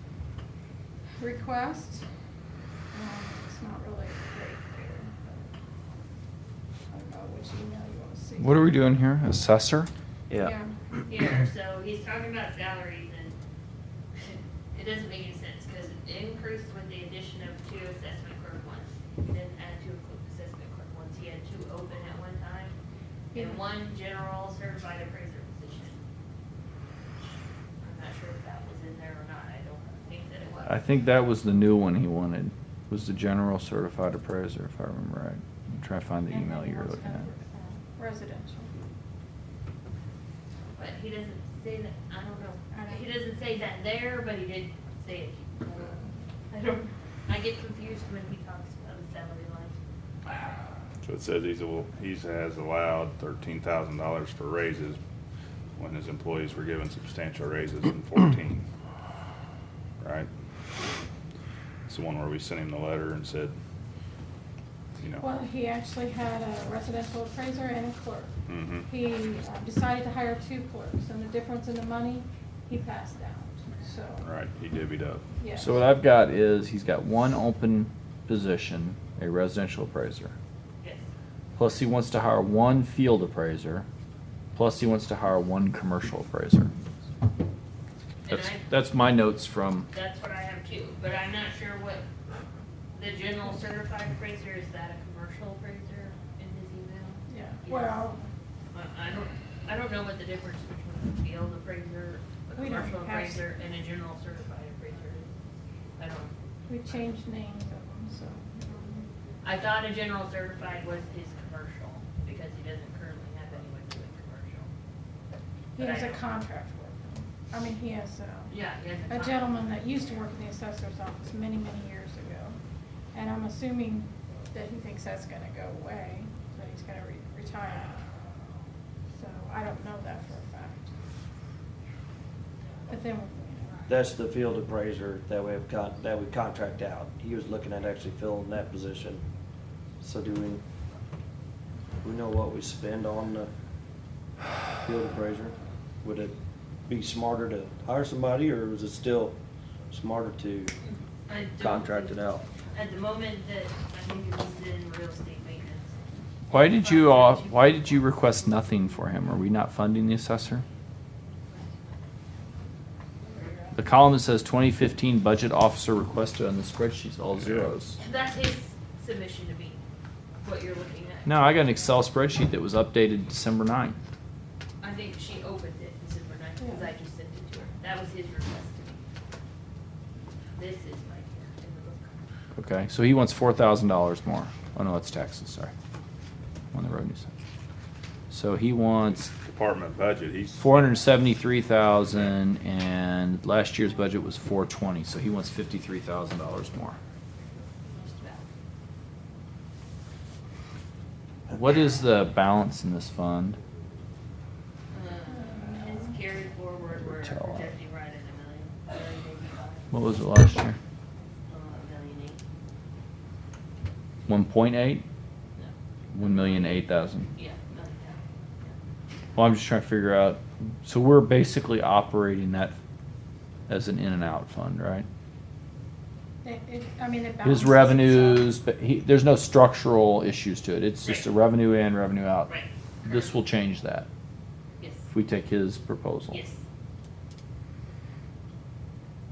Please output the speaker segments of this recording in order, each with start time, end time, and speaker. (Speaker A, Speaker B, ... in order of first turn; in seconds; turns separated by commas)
Speaker A: 1.2-2.0, Speaker A: 2.9-5.5, Speaker A: 6.9-9.1, Speaker B: 8.4-9.9, Speaker C: 10.3-10.5, Speaker A: 10.4-10.7, Speaker D: 11.1-13.3, Speaker D: 14.2-22.8, Speaker A: 23.3-23.6, Speaker D: 23.3-26.0, Speaker D: 27.8-30.8, Speaker B: 30.6-37.2, Speaker A: 36.3-38.7, Speaker D: 40.7-49.7, Speaker A: 42.7-43.1, Speaker E: 51.0-55.0, Speaker E: 55.8-58.6, Speaker E: 60.0-60.3, Speaker E: 61.9-63.5, Speaker A: 65.2-68.3, Speaker E: 68.5-68.8, Speaker A: 68.9-74.3, Speaker E: 74.2-75.2, Speaker A: 75.4-75.8, Speaker B: 75.5-80.3, Speaker D: 80.8-81.1, Speaker B: 81.6-83.8, Speaker B: 84.5-86.7, Speaker D: 88.2-88.6, Speaker B: 88.3-89.9, Speaker D: 89.9-92.0, Speaker D: 92.9-98.1, Speaker A: 97.3-98.2, Speaker D: 98.7-105.3, Speaker A: 102.6-103.5, Speaker D: 106.0-106.3, Speaker A: 106.7-109.1, Speaker D: 109.4-114.7, Speaker A: 115.8-118.5, Speaker D: 115.8-116.2, Speaker D: 118.5-120.1, Speaker A: 119.1-122.6, Speaker A: 123.1-128.2, Speaker A: 129.1-130.9, Speaker A: 132.9-133.7, Speaker C: 133.9-139.2, Speaker C: 140.0-140.6, Speaker C: 142.0-143.5, Speaker C: 144.7-146.3, Speaker C: 146.8-149.4, Speaker C: 149.9-150.7, Speaker D: 150.8-156.0, Speaker C: 151.6-152.4, Speaker D: 156.5-158.1, Speaker B: 156.5-160.6, Speaker D: 161.5-161.7, Speaker D: 163.3-163.7, Speaker B: 163.8-168.0, Speaker E: 167.4-167.7, Speaker D: 168.0-169.8, Speaker D: 170.4-171.4, Speaker B: 171.2-174.0, Speaker D: 174.8-179.0, Speaker A: 176.6-176.9, Speaker D: 180.5-182.2, Speaker B: 182.6-185.7, Speaker B: 186.7-187.3, Speaker B: 188.3-189.3, Speaker E: 189.3-190.6, Speaker B: 190.6-197.0, Speaker D: 197.9-198.5, Speaker B: 201.5-203.6, Speaker D: 204.9-210.1, Speaker A: 205.3-206.1, Speaker B: 207.1-207.7, Speaker B: 209.9-210.8, Speaker D: 211.4-212.4, Speaker B: 214.3-215.1, Speaker D: 215.6-218.8, Speaker B: 216.1-217.3, Speaker B: 219.3-222.7, Speaker B: 223.7-225.1, Speaker A: 226.4-228.5, Speaker B: 227.4-232.5, Speaker D: 231.0-231.3, Speaker D: 232.5-233.3, Speaker B: 233.0-234.1, Speaker D: 234.8-235.1, Speaker B: 235.1-236.4, Speaker D: 236.3-236.6